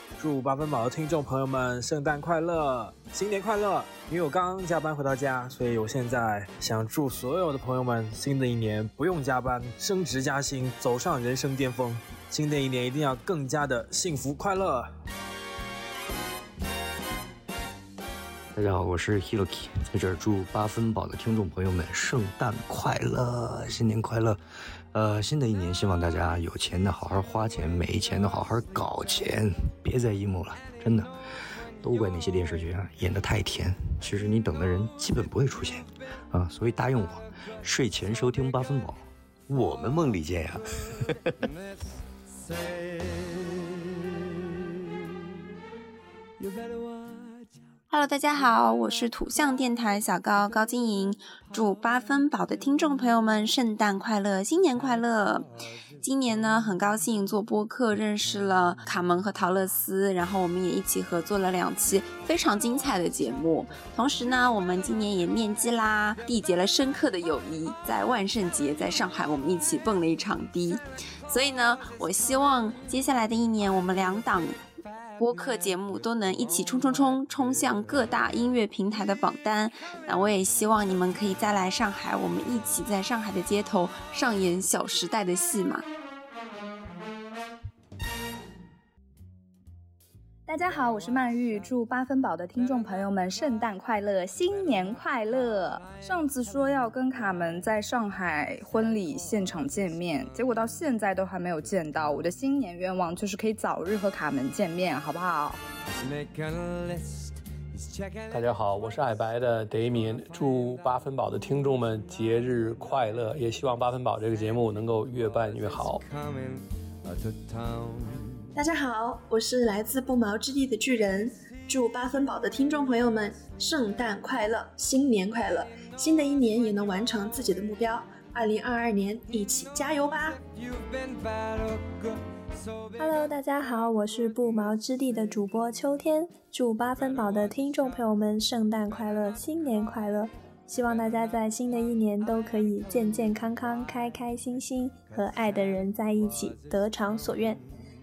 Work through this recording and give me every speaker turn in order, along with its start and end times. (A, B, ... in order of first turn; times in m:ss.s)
0:00.2-0:14.9 A
0:18.5-0:24.4 B
0:24.9-0:31.1 B
0:31.8-0:40.6 B
0:42.5-0:43.4 C
0:46.4-0:47.1 C
0:47.9-1:14.6 D
1:15.2-1:25.8 D
1:30.5-1:45.6 E
1:46.0-1:48.3 C
1:48.3-1:56.0 F
1:55.7-1:58.5 C
1:58.6-2:10.4 G
2:10.6-2:12.1 C
2:13.0-2:27.6 H